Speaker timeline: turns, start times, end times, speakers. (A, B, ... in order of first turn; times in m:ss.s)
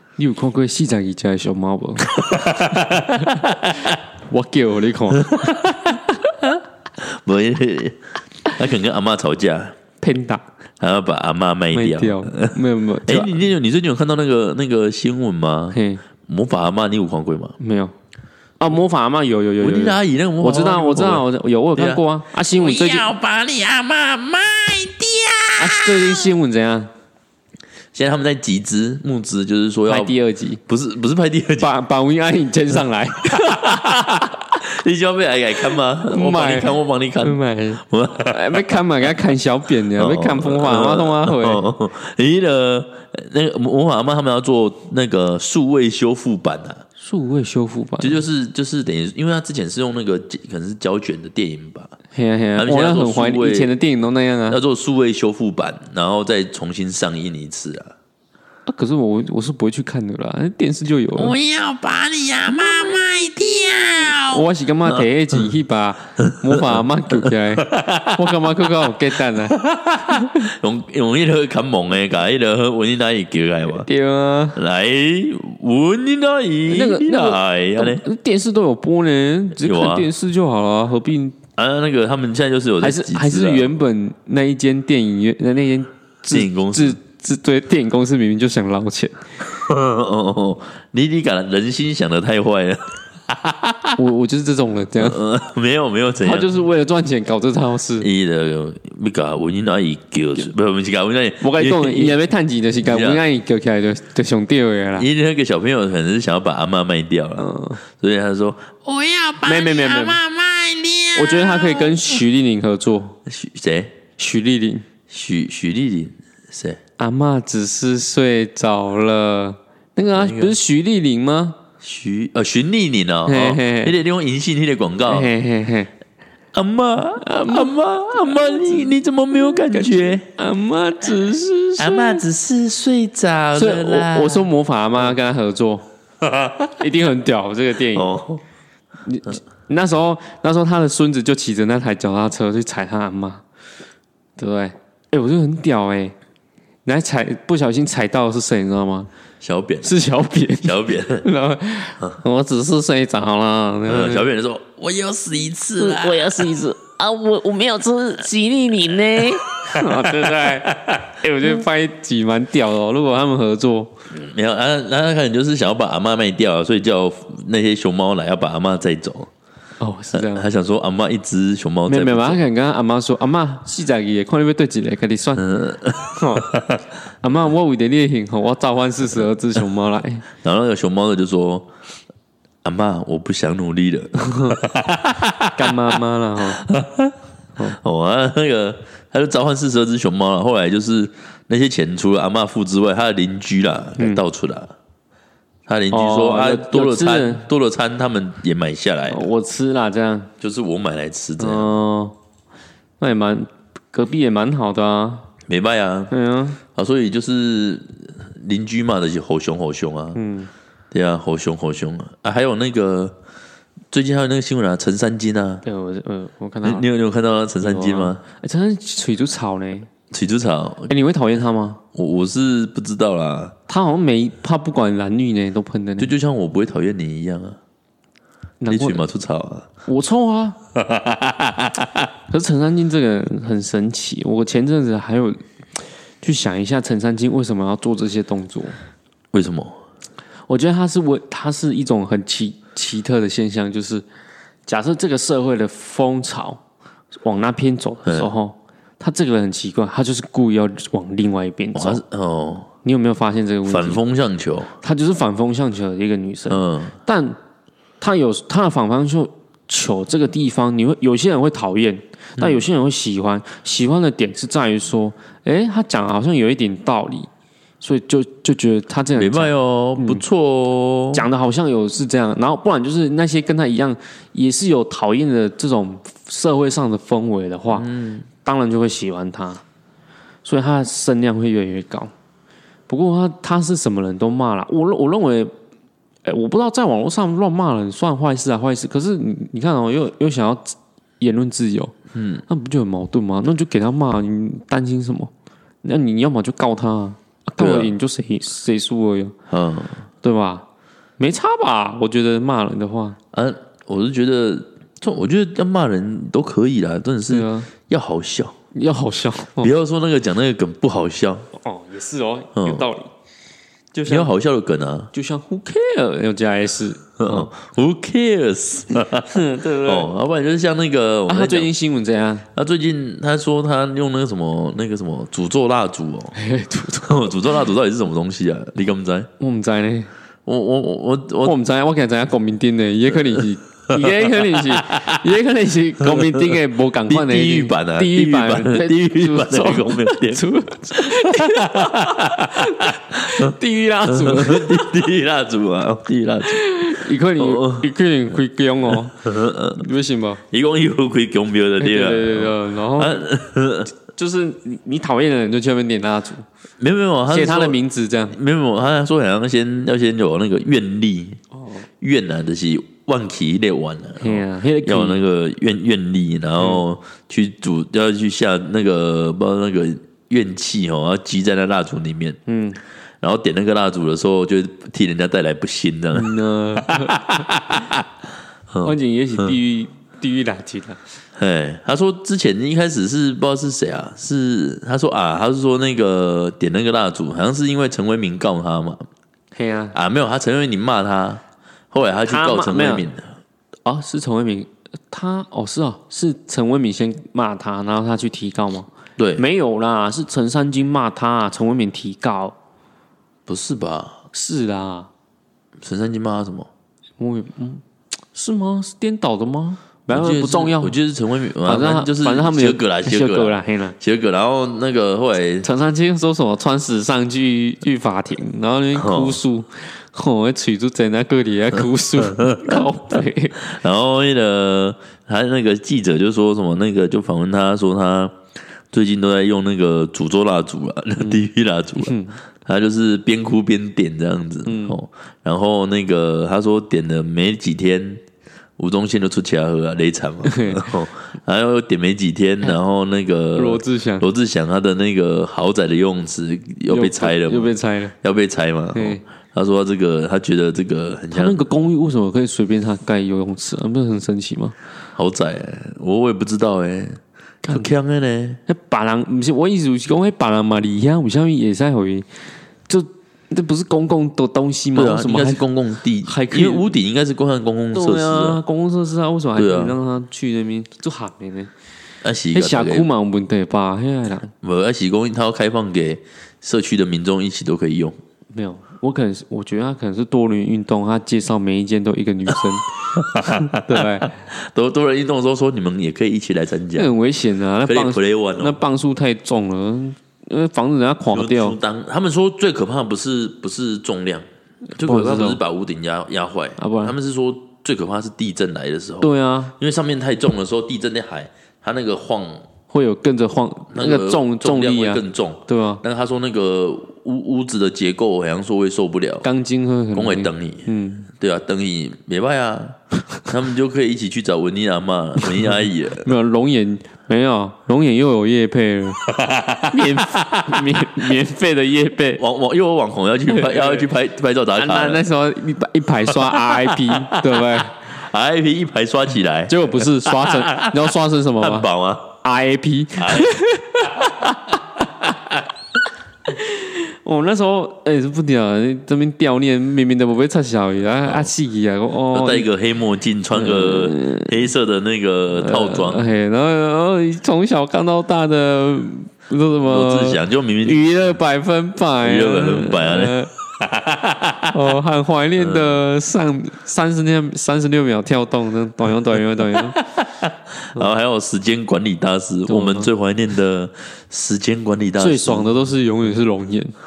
0:00.2-0:02.2 A
0:02.1-0:04.0 B
0:03.2-0:03.4 A
0:04.2-0:05.6 A
0:05.2-0:09.8 B
0:10.0-0:10.4 A
0:10.8-0:17.6 B
0:11.7-0:13.4 A
0:15.7-0:16.0 A
0:17.6-0:17.9 A
0:18.6-0:23.1 A
0:19.6-0:26.3 B
0:25.6-0:26.9 A
0:27.9-0:30.2 B
0:29.9-0:30.6 A
0:30.7-0:31.7 B
0:31.6-0:34.2 A
0:33.3-0:38.8 B
0:36.0-0:41.6 A
0:39.9-0:46.8 B
0:47.0-0:48.2 A
0:48.0-0:52.0 B
0:52.1-0:54.6 A
0:52.6-0:53.7 B
0:54.5-0:57.9 B
0:58.7-1:01.4 A
1:01.2-1:04.4 B
1:04.3-1:09.6 A
1:06.2-1:06.5 B
1:07.2-1:08.7 B
1:09.4-1:13.9 B
1:10.1-1:10.4 A
1:13.7-1:14.6 A
1:14.6-1:18.0 B
1:16.7-1:21.4 A
1:19.6-1:20.1 B
1:21.6-1:23.7 B
1:22.8-1:29.2 A
1:26.3-1:27.0 B
1:29.5-1:34.0 B
1:34.0-1:35.2 A
1:35.0-1:36.5 B
1:36.2-1:38.1 A
1:38.0-1:42.2 B
1:41.4-1:45.1 A
1:42.8-1:43.2 B
1:45.0-1:52.0 B
1:47.4-1:47.8 A
1:49.4-1:50.2 A
1:51.2-1:53.2 A
1:53.3-1:53.9 B
1:54.2-1:54.8 A
1:55.1-1:56.8 B
1:57.0-2:01.6 A
2:00.1-2:00.6 B
2:01.8-2:05.3 B
2:03.3-2:03.9 A
2:05.1-2:05.9 A
2:06.5-2:10.3 B
2:07.2-2:08.9 A
2:09.5-2:12.2 A
2:11.8-2:14.5 B
2:13.6-2:15.8 A
2:16.2-2:16.8 B
2:16.8-2:18.2 A
2:17.9-2:18.4 B
2:19.0-2:23.4 A
2:24.4-2:26.2 A
2:26.8-2:29.1 A
2:29.4-2:29.9 B
2:29.8-2:34.3 A
2:30.6-2:31.3 B
2:33.9-2:36.5 B
2:35.8-2:43.9 A
2:39.6-2:41.2 B
2:44.1-2:49.3 B
2:49.8-2:50.5 A
2:50.1-2:52.4 B
2:51.9-2:55.4 A
2:55.4-2:56.8 B
2:56.1-2:56.5 A
2:57.2-3:00.2 A
3:00.4-3:01.7 B
3:02.6-3:06.0 B
3:04.2-3:04.6 A
3:05.5-3:06.6 A
3:06.5-3:07.2 B
3:07.7-3:14.7 B
3:15.7-3:19.3 B
3:15.9-3:17.4 A
3:19.1-3:20.3 A
3:20.4-3:21.8 B
3:21.4-3:22.2 A
3:23.0-3:25.3 A
3:25.5-3:26.1 B
3:26.1-3:26.6 A
3:26.7-3:30.2 B
3:30.2-3:30.5 A
3:30.9-3:33.2 B
3:33.9-3:35.6 B
3:35.6-3:36.8 A
3:36.6-3:38.2 B
3:37.6-3:39.9 A
3:40.1-3:40.9 B
3:40.9-3:41.8 A
3:41.9-3:43.6 B
3:43.7-3:46.1 A
3:46.0-3:47.6 B
3:48.6-3:49.0 A
3:48.7-3:49.7 B
3:49.9-3:50.6 A
3:50.8-3:52.0 B
3:52.3-3:58.8 A
3:59.3-3:59.8 B
4:00.5-4:04.0 A
4:04.7-4:06.6 A
4:07.2-4:12.0 A
4:08.0-4:08.3 B
4:11.8-4:12.7 B
4:12.8-4:14.0 A
4:13.7-4:14.8 B
4:14.8-4:17.4 A
4:16.5-4:17.0 B
4:18.0-4:30.2 A
4:22.4-4:22.6 B
4:29.2-4:31.2 B
4:31.1-4:37.9 A
4:37.7-4:38.3 B
4:38.4-4:39.6 A
4:40.4-4:42.1 A
4:42.9-4:45.5 A
4:46.2-4:51.9 A
4:52.1-4:52.4 B
4:52.5-4:55.3 A
4:55.8-4:59.4 A
4:57.6-4:57.9 B
4:59.5-5:00.1 B
5:00.2-5:00.6 A
5:01.2-5:03.2 A
5:03.3-5:08.6 B
5:07.3-5:07.7 A
5:08.7-5:09.7 A
5:09.6-5:11.5 B
5:11.5-5:13.1 A
5:12.6-5:12.9 B
5:13.9-5:14.3 A
5:14.1-5:15.1 B
5:15.1-5:17.5 A
5:17.2-5:21.7 B
5:19.0-5:20.1 A
5:21.3-5:22.5 A
5:22.5-5:26.4 B
5:26.4-5:27.6 A
5:27.0-5:29.3 B
5:29.4-5:30.1 A
5:30.5-5:31.6 B
5:31.4-5:44.9 A
5:33.9-5:35.2 B
5:37.0-5:47.9 B
5:46.4-5:50.4 A
5:49.2-5:49.8 B
5:50.5-5:53.9 B
5:51.8-5:53.3 A
5:54.0-5:56.5 A
5:56.8-5:57.8 B
5:57.3-5:58.4 A
5:58.3-6:01.4 B
6:01.6-6:01.8 A
6:02.0-6:12.4 B
6:04.2-6:05.2 A
6:12.5-6:12.8 A
6:13.2-6:18.0 B
6:16.1-6:17.6 A
6:18.7-6:19.6 B
6:18.8-6:21.0 A
6:21.4-6:29.0 B
6:29.5-6:30.0 A
6:29.9-6:33.4 B
6:32.3-6:33.1 A
6:33.8-6:42.6 A
6:39.2-6:39.4 B
6:43.5-6:44.2 B
6:44.3-6:45.1 A
6:45.8-6:46.7 B
6:47.2-6:47.8 A
6:48.3-6:51.0 A
6:50.1-6:55.7 B
6:51.6-6:54.0 A
6:55.6-7:03.6 A
6:58.9-6:59.4 B
7:02.2-7:02.8 B
7:03.6-7:08.4 B
7:08.9-7:18.2 B
7:11.2-7:12.4 A
7:14.7-7:15.0 A
7:18.8-7:31.7 B
7:20.5-7:20.9 A
7:23.6-7:24.3 A
7:26.9-7:28.1 A
7:28.9-7:29.2 A
7:31.3-7:34.8 A
7:35.2-7:38.6 B
7:37.7-7:37.9 A
7:38.7-7:45.6 A
7:45.0-7:48.6 B
7:46.2-7:46.9 A
7:47.9-7:51.7 A
7:49.6-7:50.0 B
7:52.2-7:53.1 B
7:52.5-7:54.5 A
7:54.6-7:58.2 B
7:58.5-8:04.3 A
8:03.2-8:07.1 B
8:06.9-8:11.8 A
8:07.8-8:08.8 B
8:11.3-8:14.4 B
8:15.0-8:22.7 B
8:15.0-8:15.6 A
8:16.8-8:17.2 A
8:19.2-8:19.7 A
8:22.9-8:26.0 A
8:23.9-8:29.5 B
8:29.4-8:31.3 A
8:30.1-8:36.3 B
8:35.5-8:39.2 A
8:39.3-8:41.2 B
8:39.9-8:42.4 A
8:42.4-8:45.2 B
8:43.5-8:44.1 A
8:44.7-8:48.1 A
8:46.3-8:52.4 B
8:49.7-8:51.9 A
8:52.4-8:54.8 A
8:53.2-8:53.6 B
8:56.5-9:02.7 A
9:02.3-9:06.3 B
9:03.5-9:04.7 A
9:05.6-9:13.5 A
9:09.8-9:11.0 B
9:12.2-9:14.8 B
9:14.7-9:20.0 A
9:15.6-9:16.0 B
9:19.7-9:25.7 B
9:22.7-9:23.1 A
9:25.2-9:27.0 A